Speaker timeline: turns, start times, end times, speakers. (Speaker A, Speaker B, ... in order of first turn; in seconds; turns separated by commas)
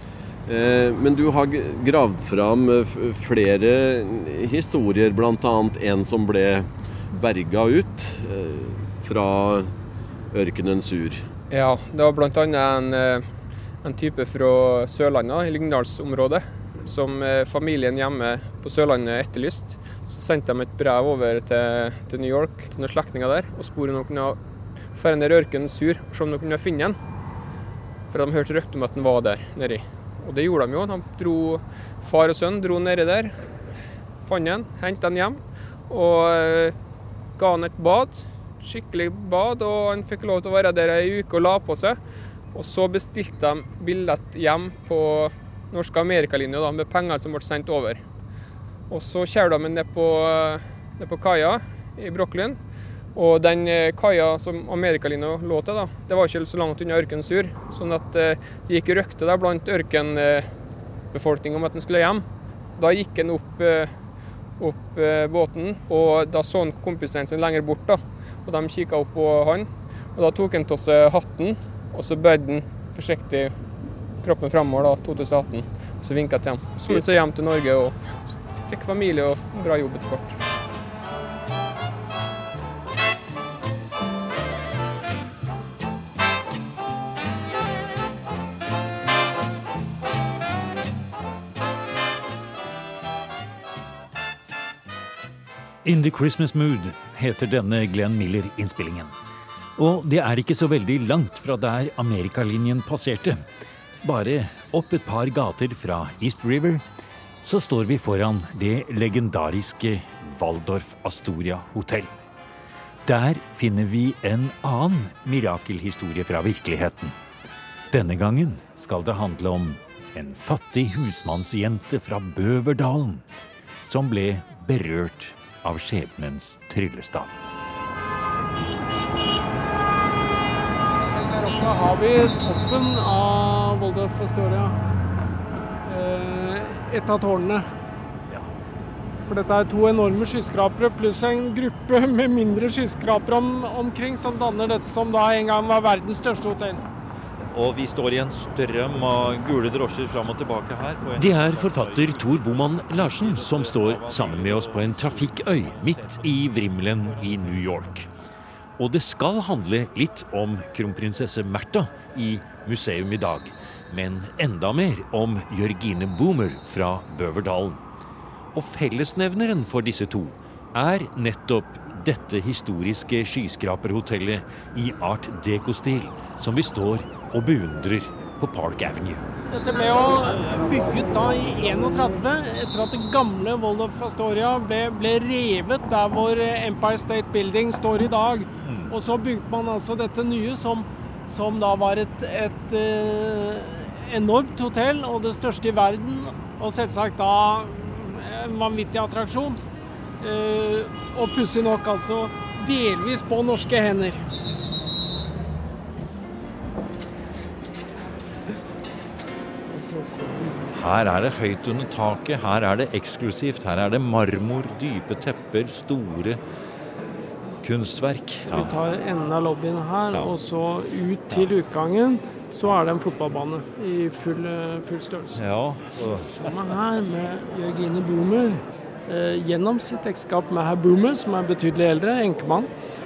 Speaker A: 0.5-9.7, Speaker A: 10.3-11.2, Speaker B: 11.5-13.2, Speaker B: 13.8-24.4, Speaker B: 24.9-27.0, Speaker B: 28.1-33.3, Speaker B: 34.2-36.7, Speaker B: 37.4-42.0, Speaker B: 42.5-48.0, Speaker B: 48.9-52.6, Speaker B: 53.1-60.5, Speaker B: 61.1-62.2, Speaker B: 62.8-63.9, Speaker B: 64.6-73.5, Speaker B: 74.2-78.1, Speaker B: 78.6-80.3, Speaker C: 95.8-99.1, Speaker C: 99.8-103.4, Speaker C: 104.0-106.8, Speaker C: 107.4-112.2, Speaker C: 113.0-117.1, Speaker C: 117.9-123.2, Speaker C: 123.8-127.3, Speaker D: 131.1-134.8, Speaker D: 135.8-137.7, Speaker D: 139.2-146.8, Speaker E: 147.5-156.2, Speaker C: 151.1-158.1, Speaker C: 158.8-167.8, Speaker C: 168.5-179.2, Speaker D: 179.5-199.6, Speaker C: 188.6-188.9, Speaker D: 200.2-204.2, Speaker D: 209.7-210.7, Speaker C: 210.8-216.4, Speaker C: 217.6-218.7, Speaker D: 218.5-225.4, Speaker C: 225.4-226.1, Speaker D: 226.3-232.7